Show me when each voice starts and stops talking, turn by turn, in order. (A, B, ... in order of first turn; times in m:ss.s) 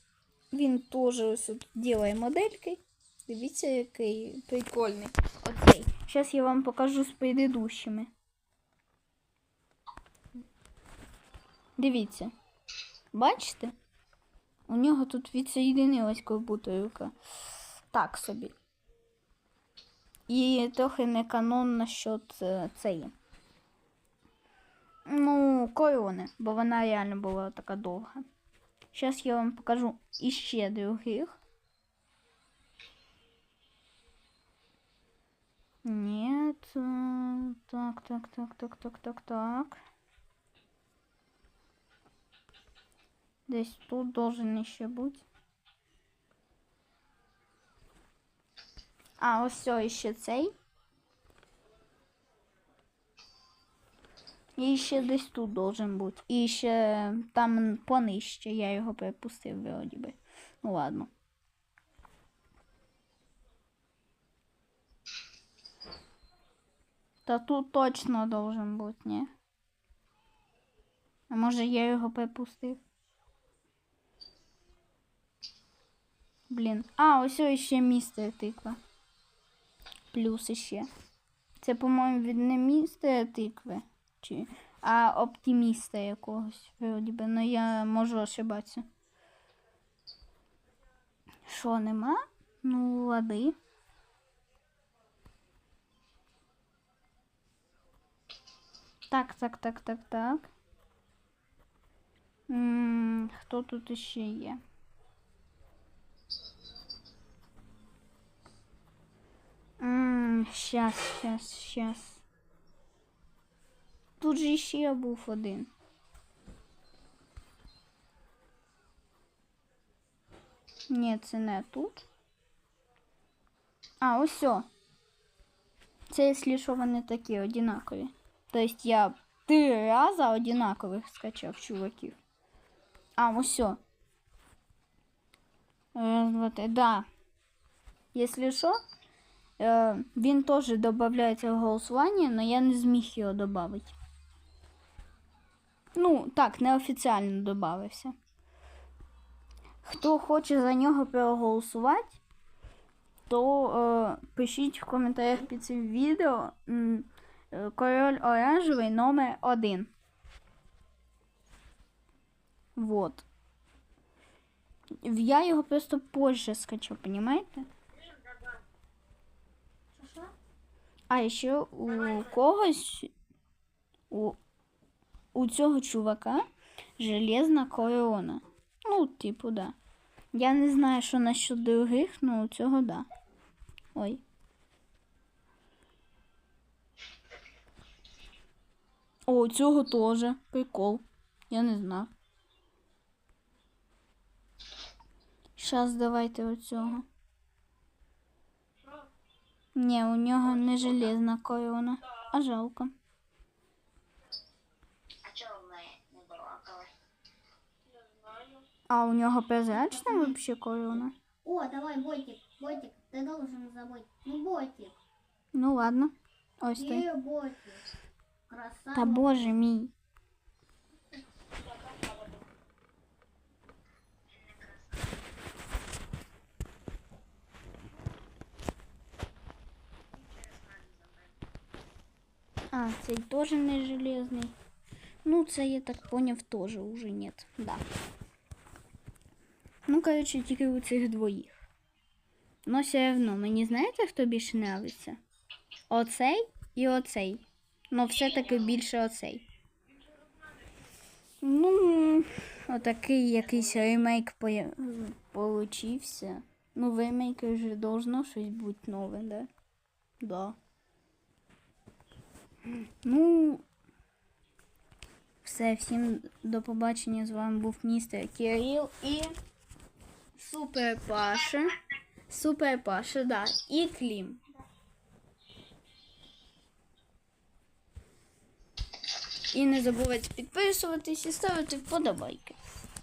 0:00.5-0:08.1 A
0:11.8-0:12.3 A
0:13.1-0:13.7 A
0:14.7-0:17.1 A
0:17.9-0:18.5 A
0:20.3-0:23.1 A
0:25.1-0:28.3 A
0:28.9-0:31.4 A
0:35.8-0:39.8 A
0:43.5-0:45.2 A
0:49.2-0:50.5 A
0:54.6-1:01.1 A
1:07.3-1:09.3 A
1:11.3-1:12.8 A
1:16.5-1:18.8 A
1:20.1-1:20.9 A
1:21.6-1:28.8 A
1:31.5-1:33.6 A
1:39.1-1:40.5 A
1:42.5-1:44.6 A
1:49.8-1:52.2 A
1:54.2-1:55.7 A
2:00.9-2:02.0 A
2:04.0-2:04.7 A
2:06.1-2:12.2 A
2:13.2-2:13.8 A
2:15.9-2:17.1 A
2:18.1-2:18.8 A
2:19.6-2:23.9 A
2:26.0-2:28.1 A
2:29.8-2:32.2 A
2:33.3-2:39.9 A
2:42.8-2:43.2 A
2:45.0-2:47.7 A
2:50.0-2:50.3 B
2:51.1-2:53.1 A
2:54.1-2:54.4 A
2:55.3-2:56.4 A
2:57.0-2:59.8 A
3:00.3-3:03.1 A
3:03.9-3:04.2 A
3:09.3-3:12.1 A
3:15.6-3:17.1 A
3:19.7-3:23.0 A
3:25.2-3:26.9 C
3:28.9-3:31.1 A
3:29.8-3:30.3 B
3:31.4-3:35.0 B
3:35.5-3:37.1 A
3:36.8-3:37.8 B
3:38.5-3:39.5 B
3:38.9-3:39.9 A
3:44.3-3:45.0 C
3:50.4-3:51.2 C
3:52.7-3:54.6 A
3:55.2-3:57.8 A
3:59.9-4:01.6 A
4:02.6-4:05.2 A
4:05.9-4:09.4 A
4:11.4-4:19.5 A
4:20.2-4:20.6 A
4:22.7-4:23.6 A
4:25.4-4:29.3 A
4:30.4-4:31.8 A
4:32.3-4:34.4 A
4:39.5-4:42.6 A